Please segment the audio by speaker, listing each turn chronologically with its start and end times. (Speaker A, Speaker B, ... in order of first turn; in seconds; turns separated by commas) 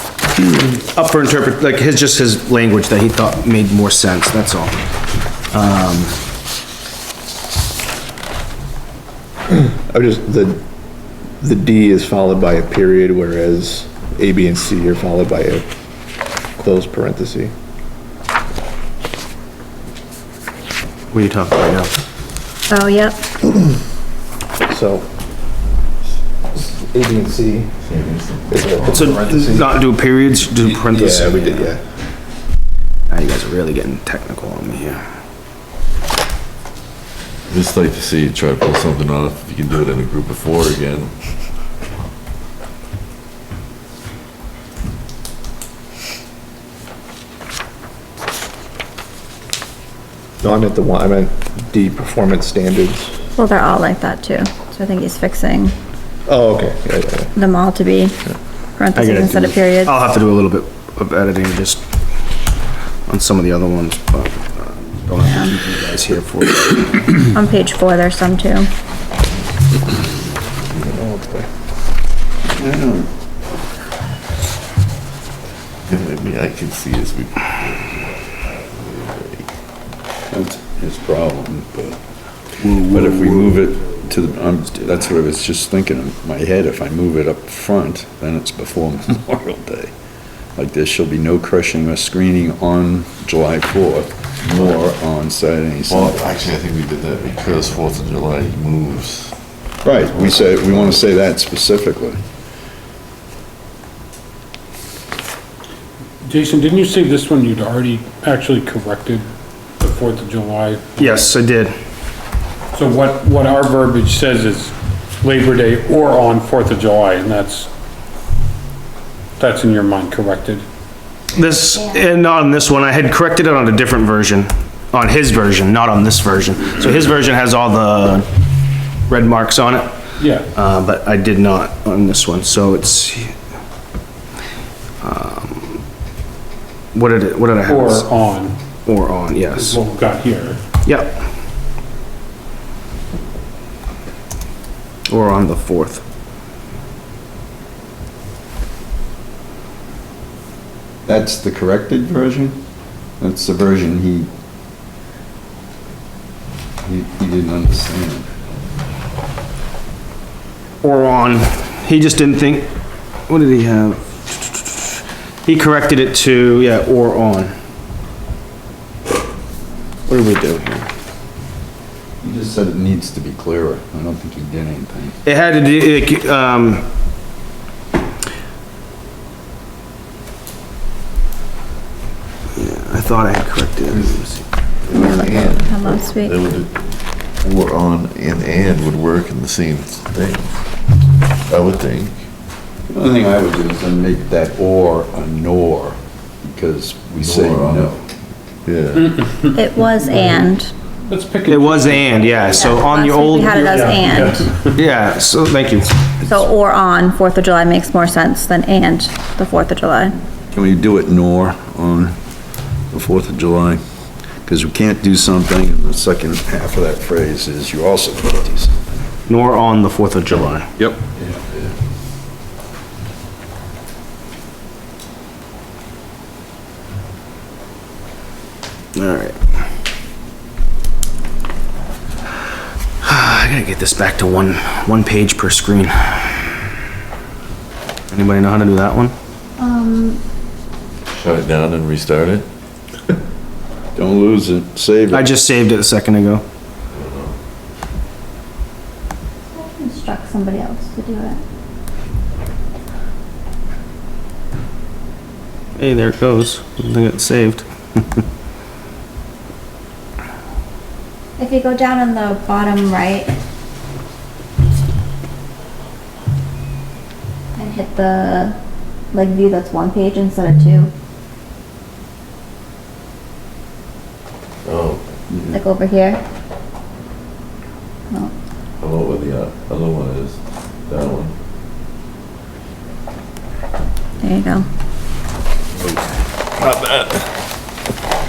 Speaker A: 0.3-4.8, Speaker A: 5.5-6.2, Speaker B: 9.5-10.6, Speaker B: 11.4-15.6, Speaker B: 16.6-17.5, Speaker A: 21.1-21.9, Speaker C: 22.7-23.2, Speaker B: 24.7-25.1, Speaker B: 26.5-27.7, Speaker D: 27.8-29.1, Speaker B: 28.5-29.7, Speaker A: 28.9-31.7, Speaker B: 30.7-31.8, Speaker A: 33.1-35.0, Speaker D: 37.5-41.1, Speaker B: 50.4-53.1, Speaker C: 53.4-55.7, Speaker B: 56.3-57.3, Speaker C: 57.3-58.1, Speaker C: 58.8-59.9, Speaker A: 59.0-61.8, Speaker A: 63.1-67.2, Speaker C: 65.2-65.5, Speaker C: 67.2-68.7, Speaker B: 70.8-71.5, Speaker E: 72.5-73.1, Speaker D: 75.9-79.5, Speaker E: 80.3-82.0, Speaker D: 82.6-83.0, Speaker E: 82.7-89.9, Speaker E: 90.5-96.5, Speaker D: 95.9-99.3, Speaker E: 99.8-102.2, Speaker F: 106.2-109.2, Speaker F: 109.8-111.3, Speaker A: 111.0-111.8, Speaker F: 112.7-117.7, Speaker F: 119.4-120.6, Speaker A: 121.3-128.3, Speaker A: 129.1-130.0, Speaker F: 130.2-130.5, Speaker A: 130.5-133.3, Speaker A: 135.0-135.8, Speaker A: 136.9-138.1, Speaker F: 137.6-138.6, Speaker A: 138.8-139.8, Speaker F: 139.5-140.6, Speaker A: 140.8-141.2, Speaker A: 145.1-146.0, Speaker E: 151.1-152.6, Speaker E: 153.2-154.3, Speaker E: 156.8-158.3, Speaker A: 160.8-162.7, Speaker A: 163.3-167.5, Speaker A: 170.1-170.9, Speaker E: 172.2-175.2, Speaker A: 175.2-176.8, Speaker A: 182.5-184.4, Speaker D: 184.8-186.8, Speaker C: 184.9-186.4, Speaker D: 187.4-190.6, Speaker D: 191.5-192.2, Speaker E: 192.9-198.0, Speaker D: 197.2-197.9, Speaker D: 198.7-199.4, Speaker F: 198.9-200.4, Speaker C: 199.5-200.7, Speaker F: 201.1-202.7, Speaker A: 201.4-203.7, Speaker C: 202.5-204.5, Speaker F: 203.5-204.8, Speaker A: 204.7-206.0, Speaker C: 206.2-210.2, Speaker E: 210.5-212.2, Speaker E: 212.9-213.8, Speaker E: 214.4-218.8, Speaker A: 219.2-220.7, Speaker D: 221.3-221.7, Speaker A: 228.9-229.4, Speaker A: 233.0-236.4, Speaker A: 238.1-239.1, Speaker C: 239.6-240.2, Speaker D: 241.1-242.4, Speaker E: 243.9-245.3, Speaker A: 245.1-246.4, Speaker D: 246.9-247.3, Speaker C: 249.5-251.4, Speaker A: 255.8-258.2, Speaker C: 261.4-263.3, Speaker C: 267.6-268.5, Speaker C: 269.1-270.9, Speaker D: 274.6-275.1, Speaker C: 275.5-276.2, Speaker D: 278.8-281.3, Speaker C: 284.2-284.6